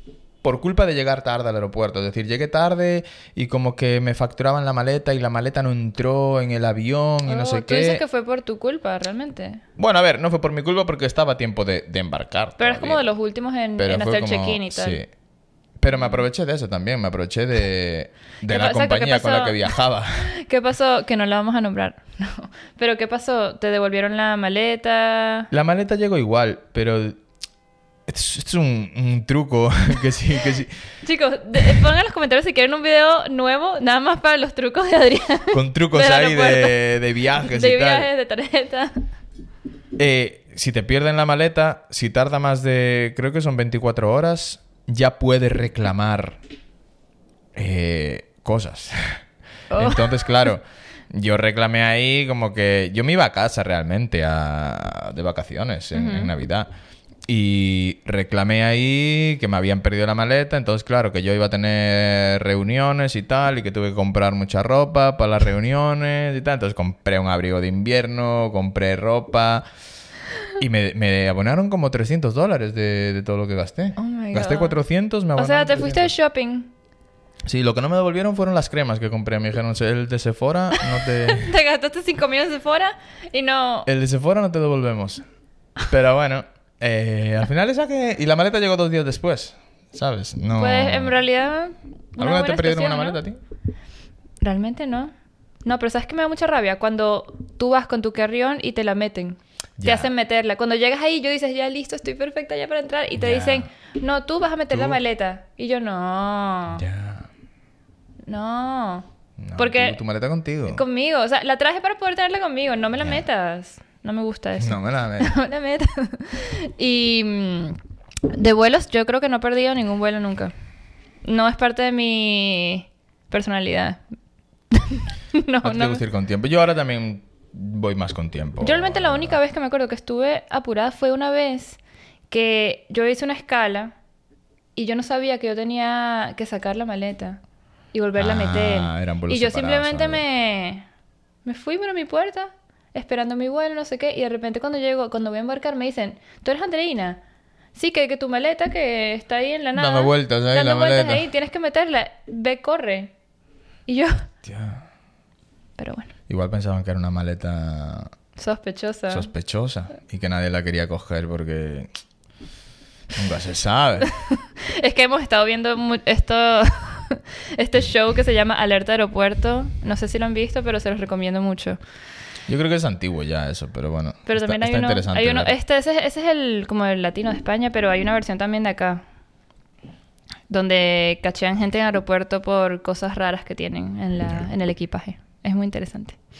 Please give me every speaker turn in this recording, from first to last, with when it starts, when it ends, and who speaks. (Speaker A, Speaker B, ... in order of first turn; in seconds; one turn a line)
Speaker A: 0.4-8.0
Speaker B: 7.2-9.6
Speaker A: 9.8-13.0
Speaker B: 12.6-15.0
Speaker A: 13.8-15.1
Speaker A: 15.8-20.3
Speaker B: 15.9-16.2
Speaker B: 18.5-19.7
Speaker B: 20.3-25.5
Speaker A: 25.5-27.2
Speaker A: 28.1-30.7
Speaker B: 31.0-39.0
Speaker A: 35.5-38.1
Speaker A: 40.0-46.4
Speaker A: 47.5-49.2
Speaker B: 49.7-50.5
Speaker A: 49.8-56.7
Speaker B: 55.9-56.3
Speaker A: 57.3-69.6
Speaker A: 70.6-76.1
Speaker B: 74.0-74.8
Speaker B: 75.4-76.7
Speaker A: 77.5-81.5
Speaker B: 80.8-83.9
Speaker A: 83.8-85.2
Speaker A: 85.8-91.1
Speaker B: 90.5-93.2
Speaker A: 92.2-93.4
Speaker B: 94.4-95.1
Speaker B: 95.6-106.8
Speaker A: 99.8-100.1
Speaker A: 103.2-103.7
Speaker A: 104.7-105.0
Speaker A: 106.7-107.3
Speaker B: 108.2-110.0
Speaker A: 109.4-110.8
Speaker B: 110.7-117.8
Speaker A: 114.6-115.3
Speaker B: 118.3-120.5
Speaker B: 121.2-124.0
Speaker B: 124.7-126.0
Speaker A: 125.6-129.4
Speaker B: 128.6-131.8
Speaker B: 132.3-133.9
Speaker B: 134.8-137.4
Speaker B: 137.9-140.8
Speaker A: 138.2-140.2
Speaker B: 141.4-147.2
Speaker B: 147.7-153.1
Speaker A: 149.7-151.2
Speaker B: 153.9-154.3
Speaker A: 154.4-154.8
Speaker B: 155.8-156.1
Speaker A: 156.3-158.1
Speaker B: 158.3-159.3
Speaker A: 159.1-161.9
Speaker A: 163.1-164.1
Speaker B: 164.1-171.8
Speaker A: 172.5-175.6
Speaker B: 174.3-179.0
Speaker B: 180.5-186.2